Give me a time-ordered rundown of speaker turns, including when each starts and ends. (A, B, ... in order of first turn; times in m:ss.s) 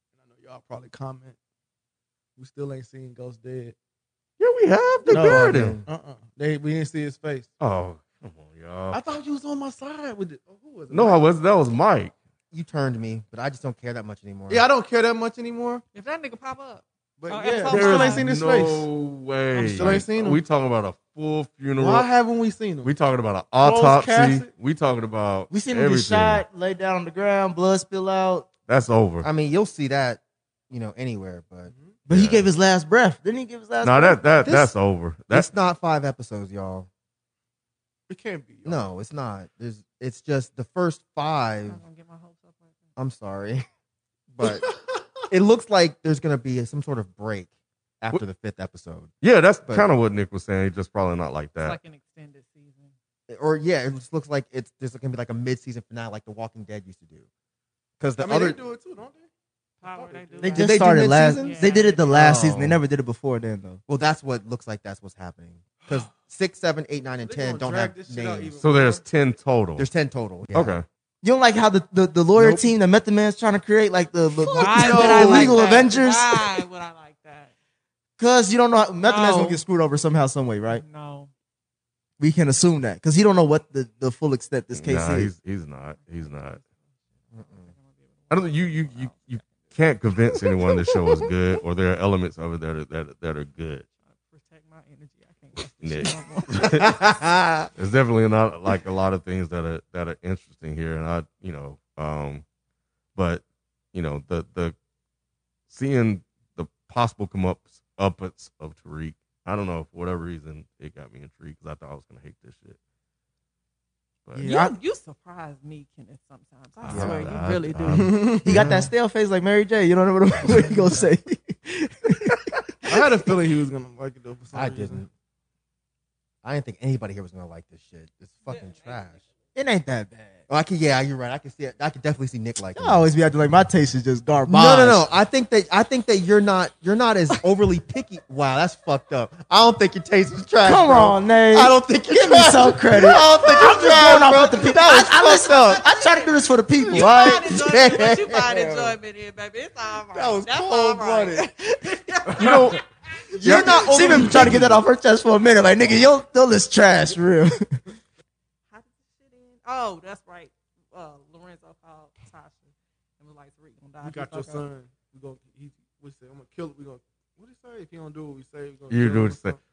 0:00.3-0:01.4 A
0:02.4-0:03.7 A
0:04.4-0:05.8 B
0:05.0-0:05.9 C
0:05.1-0:05.6 D
0:05.8-0:07.5 A
0:07.6-0:09.0 B
0:08.9-0:11.3 A
0:10.9-0:12.1 B
0:12.5-0:14.6 C
0:14.5-0:15.8 A
0:15.9-0:18.2 E
0:17.2-0:18.9 A
0:17.3-0:17.7 D
0:17.7-0:22.1 B
0:19.5-0:20.0 E
0:19.6-0:20.4 A
0:21.8-0:22.9 A
0:22.8-0:26.4 B
0:23.6-0:24.5 A
0:25.5-0:28.5 D
0:28.7-0:29.3 B
0:29.2-0:31.7 C
0:31.7-0:31.9 A
0:32.1-0:34.2 D
0:32.1-0:32.4 B
0:33.8-0:35.5 B
0:34.4-0:34.7 C
0:35.3-0:36.9 C
0:38.1-0:38.9 A
0:38.6-0:41.8 C
0:41.7-0:42.8 E
0:43.0-0:43.6 C
0:44.3-0:44.7 C
0:44.4-0:45.2 A
0:45.3-0:49.1 C
0:49.2-0:51.8 B
0:51.6-0:52.9 E
0:53.3-0:57.2 C
0:58.0-0:58.6 C
0:58.2-0:59.3 A
0:59.8-1:02.2 E
0:59.8-1:00.6 A
1:00.4-1:03.8 D
1:00.5-1:02.8 C
1:03.9-1:08.6 C
1:07.2-1:09.0 A
1:08.6-1:09.8 B
1:09.8-1:10.7 C
1:10.5-1:10.8 B
1:11.2-1:16.6 D
1:12.4-1:12.6 B
1:14.4-1:17.5 E
1:14.5-1:15.8 A
1:18.2-1:20.8 D
1:19.0-1:19.6 E
1:20.7-1:21.3 E
1:22.2-1:25.3 D
1:24.7-1:26.6 B
1:26.1-1:26.7 E
1:27.3-1:27.7 C
1:27.4-1:29.7 E
1:28.3-1:33.8 B
1:34.0-1:37.0 E
1:35.8-1:37.0 B
1:36.6-1:37.7 C
1:37.8-1:42.4 B
1:43.1-1:43.4 B
1:43.9-1:44.8 B
1:45.7-1:52.8 B
1:54.3-1:54.7 D
1:54.4-1:58.2 E
1:56.9-1:57.3 C
1:56.9-1:58.9 B
1:57.9-1:58.6 A
1:58.4-2:03.2 D
2:02.8-2:05.0 A
2:04.5-2:05.1 C
2:06.4-2:09.2 C
2:08.5-2:09.3 E
2:09.5-2:10.4 D
2:10.5-2:13.0 C
2:12.8-2:15.0 D
2:14.5-2:25.8 C
2:20.6-2:27.6 D
2:25.2-2:32.7 E
2:26.9-2:28.9 C
2:30.1-2:31.5 C
2:32.4-2:32.8 B
2:33.3-2:34.8 C
2:33.3-2:37.8 D
2:38.7-2:44.7 E
2:44.0-2:49.6 A
2:48.9-2:49.6 B